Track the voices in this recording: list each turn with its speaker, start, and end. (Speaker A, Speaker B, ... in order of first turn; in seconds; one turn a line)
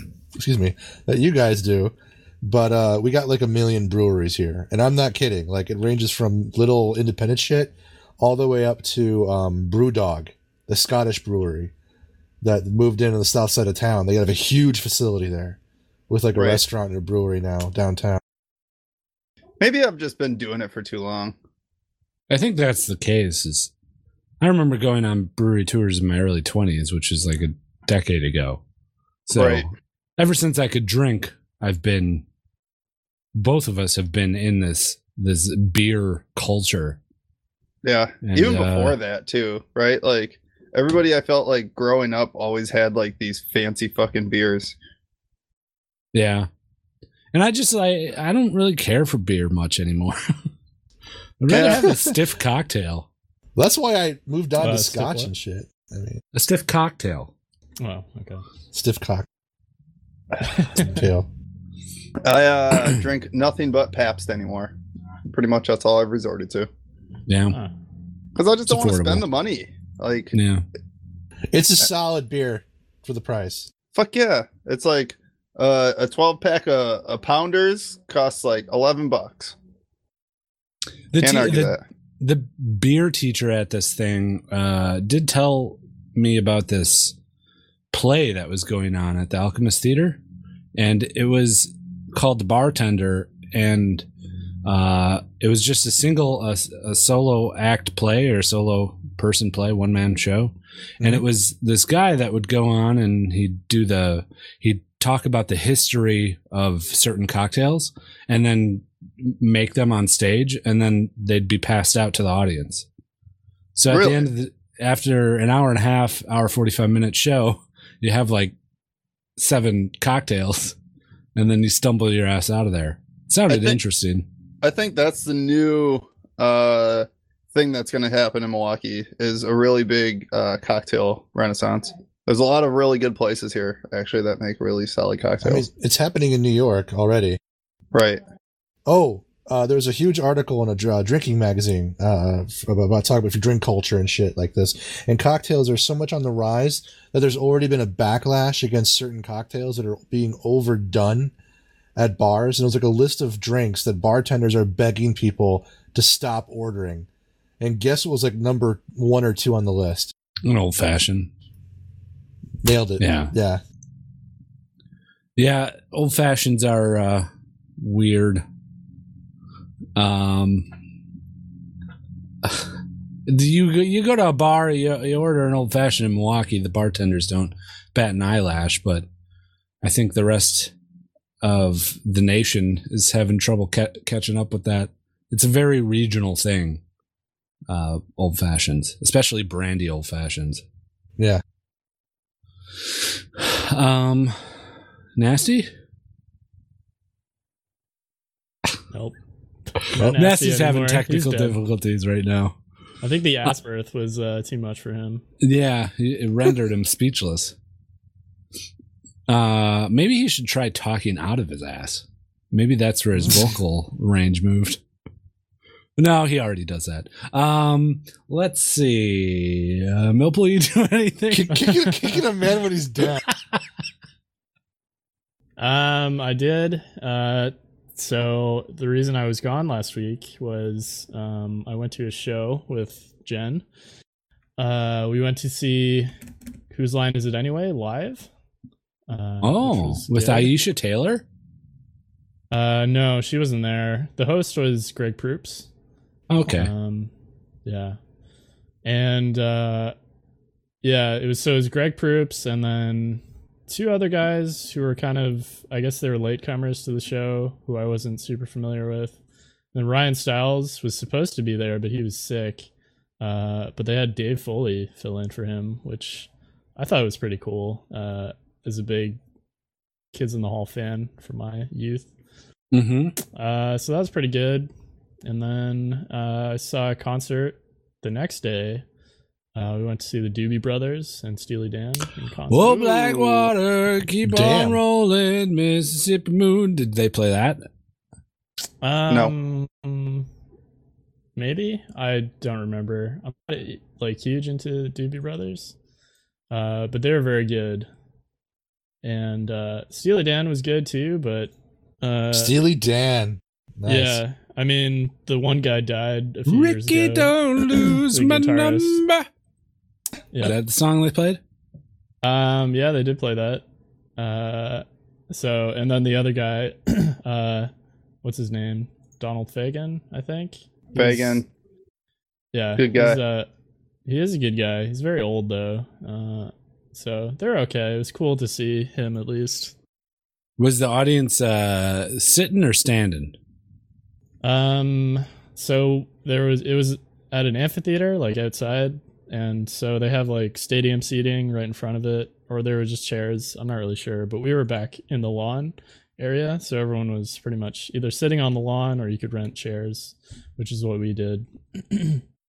Speaker A: 0.3-11.7
Speaker A: 12.4-15.6
Speaker A: 16.1-18.2
Speaker B: 16.3-16.6
Speaker B: 19.6-21.4
Speaker C: 22.3-23.7
Speaker C: 24.4-28.6
Speaker C: 29.3-32.2
Speaker B: 29.3-29.6
Speaker C: 33.3-37.0
Speaker B: 37.8-44.7
Speaker C: 38.2-39.0
Speaker C: 46.1-46.5
Speaker C: 47.3-50.3
Speaker C: 51.4-53.1
Speaker B: 51.5-51.9
Speaker A: 51.5-52.1
Speaker A: 53.5-56.2
Speaker D: 54.6-55.3
Speaker C: 56.3-57.3
Speaker D: 57.8-58.4
Speaker A: 58.7-59.2
Speaker D: 60.4-61.0
Speaker A: 60.7-61.3
Speaker B: 62.2-64.7
Speaker B: 65.3-66.7
Speaker C: 67.3-67.6
Speaker B: 68.3-70.3
Speaker C: 68.7-69.2
Speaker C: 70.3-70.6
Speaker A: 71.5-73.7
Speaker B: 73.9-79.5
Speaker C: 81.1-87.1
Speaker B: 81.2-81.8
Speaker C: 87.9-90.2
Speaker C: 90.7-94.1
Speaker C: 94.6-112.8
Speaker C: 113.7-118.5
Speaker B: 113.9-114.3
Speaker C: 119.4-120.8
Speaker C: 121.3-124.2
Speaker B: 123.5-123.8
Speaker B: 124.6-135.6
Speaker A: 135.4-137.4
Speaker B: 137.9-138.2
Speaker A: 138.9-151.3
Speaker A: 151.9-157.1
Speaker A: 157.6-160.1
Speaker C: 160.4-161.3
Speaker A: 162.6-163.6
Speaker C: 163.0-163.3
Speaker C: 165.4-168.4
Speaker C: 169.9-170.7
Speaker C: 172.4-172.7
Speaker C: 173.3-179.1
Speaker C: 179.8-180.7
Speaker C: 181.4-186.8
Speaker C: 187.7-190.6
Speaker C: 193.3-194.4
Speaker C: 195.2-195.7
Speaker D: 199.8-201.6
Speaker C: 200.1-202.6
Speaker D: 203.0-205.2
Speaker C: 205.4-207.5
Speaker C: 209.3-214.8
Speaker C: 216.0-221.7
Speaker A: 221.3-223.2
Speaker D: 221.6-222.2
Speaker C: 223.3-223.6
Speaker D: 225.6-233.6
Speaker D: 234.6-236.1
Speaker D: 236.7-238.3
Speaker D: 239.1-240.5
Speaker C: 239.4-241.2
Speaker D: 242.5-245.7
Speaker C: 246.3-246.7
Speaker D: 246.4-247.1
Speaker D: 247.7-248.0
Speaker D: 248.8-249.9
Speaker D: 250.8-259.1
Speaker D: 259.7-262.7
Speaker D: 263.2-269.2
Speaker D: 270.1-272.1
Speaker C: 272.7-273.2
Speaker D: 273.3-274.7
Speaker D: 275.2-278.8
Speaker D: 279.5-283.5
Speaker C: 282.5-287.6
Speaker A: 284.2-284.8
Speaker D: 288.8-290.2
Speaker D: 291.4-295.7
Speaker D: 296.5-297.9
Speaker D: 299.0-302.5
Speaker A: 302.3-304.2
Speaker D: 303.9-307.3
Speaker C: 306.4-309.3
Speaker D: 307.9-309.0
Speaker C: 310.4-311.4
Speaker D: 312.2-313.6
Speaker D: 314.2-317.7
Speaker D: 318.2-321.4
Speaker B: 320.9-321.5
Speaker D: 322.5-323.5
Speaker B: 322.8-323.2
Speaker D: 324.1-329.7
Speaker C: 330.6-333.4
Speaker D: 334.4-352.2